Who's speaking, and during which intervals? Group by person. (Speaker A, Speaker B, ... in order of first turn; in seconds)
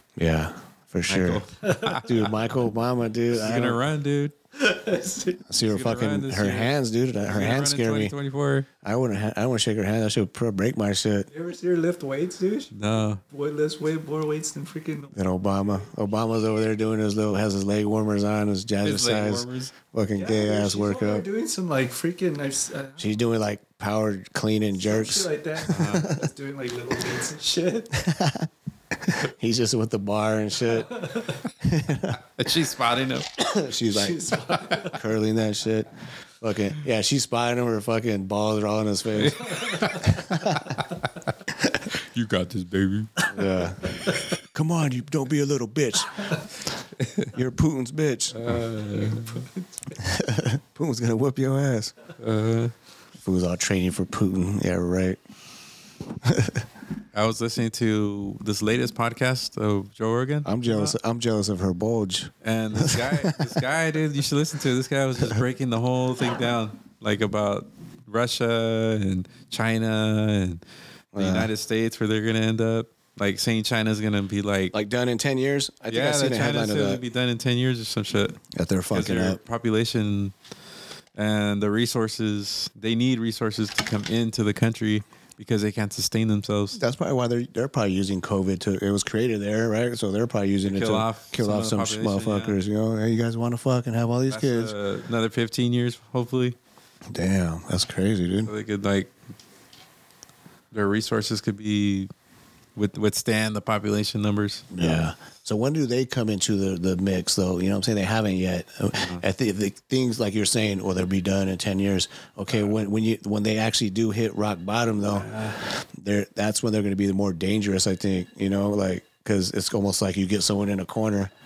Speaker A: 0.2-1.4, 2.0-3.8, 5.5-8.1, 8.8-11.3, 15.1-21.2, 23.0-26.2, 27.9-30.9, 31.6-32.2, 33.4-34.3, 34.9-35.9, 36.4-39.5, 40.3-40.5, 43.3-46.5, 47.3-48.5, 50.0-51.9, 53.1-55.2, 56.2-56.6, 60.4-63.6, 71.1-71.5, 74.7-77.0, 78.5-79.4, 86.7-94.7, 97.1-98.5, 104.7-121.3
Speaker B: 1.1-2.2, 3.3-4.3, 5.7-6.7, 7.2-8.7, 12.7-13.2, 18.8-19.7, 25.7-26.1, 32.3-33.3, 39.2-40.8, 42.0-43.2, 47.0-47.3, 48.3-49.4, 52.2-52.7, 57.1-60.9, 62.4-70.6, 71.1-74.7, 75.9-78.4, 78.9-80.3, 81.1-86.8, 90.7-92.5, 94.3-96.5, 98.4-99.1, 100.7-102.1, 102.8-104.6, 108.9-109.2, 115.2-115.6
Speaker C: 1.6-2.0, 4.5-5.4, 11.3-15.9, 20.1-23.3, 24.7-28.0, 30.7-31.4, 33.9-35.0, 39.4-40.2, 48.9-50.0